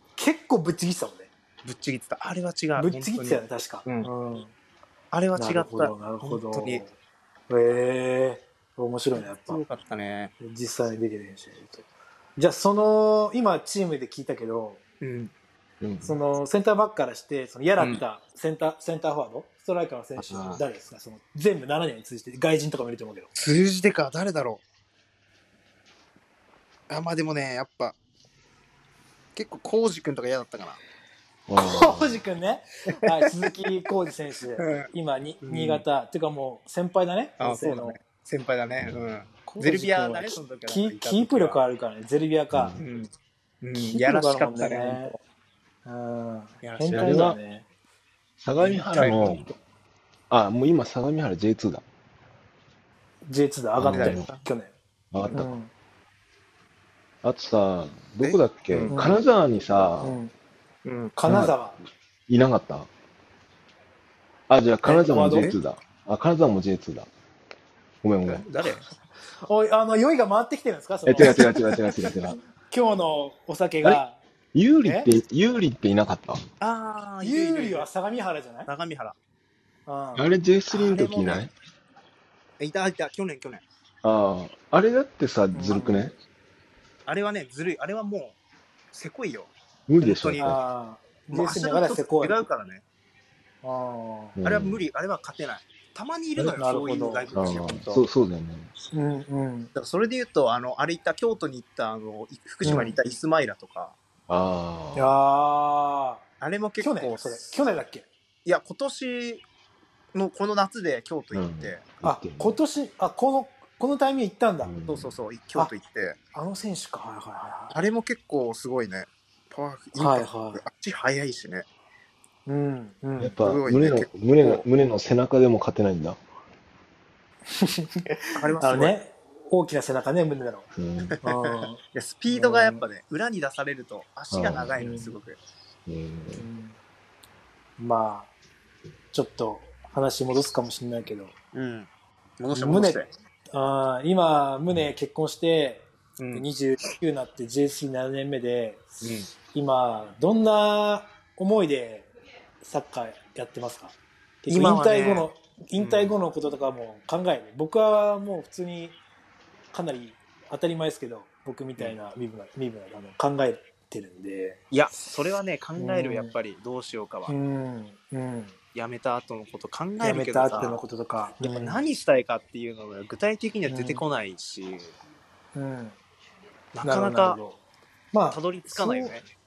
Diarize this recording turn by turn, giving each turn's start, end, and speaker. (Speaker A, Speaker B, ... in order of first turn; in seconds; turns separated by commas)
Speaker A: 0.2-1.3, Speaker B: 1.6-4.1, Speaker A: 2.8-4.5, Speaker B: 5.1-6.8, Speaker A: 5.4-6.9, Speaker A: 7.5-9.6, Speaker B: 9.1-10.3, Speaker A: 10.4-14.8, Speaker B: 15.0-15.3, Speaker C: 15.8-16.1, Speaker A: 16.0-23.3, Speaker B: 20.2-20.6, Speaker B: 23.4-24.6, Speaker B: 26.9-28.0, Speaker B: 29.4-30.8, Speaker C: 31.5-32.2, Speaker A: 31.6-38.0, Speaker B: 34.6-34.9, Speaker B: 35.4-35.8, Speaker B: 37.4-41.6, Speaker A: 39.5-42.8, Speaker C: 42.5-42.8, Speaker B: 42.8-43.1, Speaker B: 43.6-45.2, Speaker A: 43.8-45.1, Speaker A: 45.9-47.7, Speaker B: 46.6-47.3, Speaker C: 46.9-47.4, Speaker C: 48.4-49.5, Speaker B: 48.6-49.5, Speaker C: 50.3-51.8, Speaker A: 53.3-54.7, Speaker C: 53.8-54.3, Speaker B: 53.9-54.5, Speaker C: 55.1-55.6, Speaker A: 55.3-55.7, Speaker C: 57.2-60.2, Speaker B: 58.2-59.0, Speaker A: 58.9-59.2, Speaker A: 60.0-60.3, Speaker B: 60.9-61.1, Speaker A: 61.2-61.8, Speaker C: 61.3-61.6, Speaker C: 62.3-62.9, Speaker C: 64.5-67.1, Speaker A: 64.8-65.6, Speaker C: 68.0-68.5, Speaker B: 68.3-68.8, Speaker A: 69.4-71.5, Speaker C: 71.0-72.4, Speaker A: 72.7-74.2, Speaker C: 74.5-76.5, Speaker A: 74.8-75.1, Speaker B: 76.6-77.9, Speaker A: 77.2-78.7, Speaker B: 78.7-79.2, Speaker A: 79.9-80.3, Speaker C: 80.2-81.5, Speaker B: 80.7-81.5, Speaker B: 82.6-83.6, Speaker C: 84.0-86.2, Speaker A: 85.5-86.1, Speaker B: 87.1-88.4, Speaker B: 88.9-90.6, Speaker C: 89.9-90.6, Speaker A: 90.4-92.4, Speaker B: 91.3-92.8, Speaker A: 93.6-94.4, Speaker C: 94.4-94.8, Speaker B: 94.4-98.0, Speaker A: 96.6-97.3, Speaker C: 97.3-98.7, Speaker A: 98.9-99.7, Speaker B: 99.7-104.0, Speaker C: 102.6-102.9, Speaker A: 102.7-103.0, Speaker C: 104.3-105.1, Speaker A: 105.0-106.2, Speaker B: 106.4-107.8, Speaker A: 106.8-108.1, Speaker B: 108.5-109.4, Speaker B: 110.1-111.8, Speaker C: 111.3-112.6, Speaker A: 112.0-114.7, Speaker C: 114.6-115.1, Speaker B: 114.9-116.2, Speaker A: 116.3-117.8, Speaker B: 117.7-121.7, Speaker A: 120.0-120.6, Speaker A: 122.5-123.4, Speaker C: 123.2-126.2, Speaker B: 123.4-124.7, Speaker A: 127.5-130.7, Speaker B: 128.3-129.0, Speaker C: 130.8-131.2, Speaker B: 131.1-135.4, Speaker A: 131.2-132.8, Speaker C: 134.3-135.1, Speaker A: 134.8-135.1, Speaker C: 135.9-136.5, Speaker A: 136.3-136.8, Speaker A: 137.8-138.3, Speaker A: 139.1-141.3, Speaker B: 141.5-143.1, Speaker A: 142.5-159.0, Speaker B: 146.2-146.5, Speaker B: 149.0-149.3, Speaker B: 154.5-156.2, Speaker A: 159.7-164.6, Speaker B: 164.7-167.3, Speaker A: 165.8-166.3, Speaker A: 167.3-168.6, Speaker B: 168.7-170.8, Speaker A: 170.0-171.8, Speaker B: 171.4-174.9, Speaker A: 173.7-174.0, Speaker A: 175.6-176.0, Speaker B: 176.7-177.4, Speaker A: 176.8-177.6, Speaker A: 178.1-179.1, Speaker B: 178.3-179.2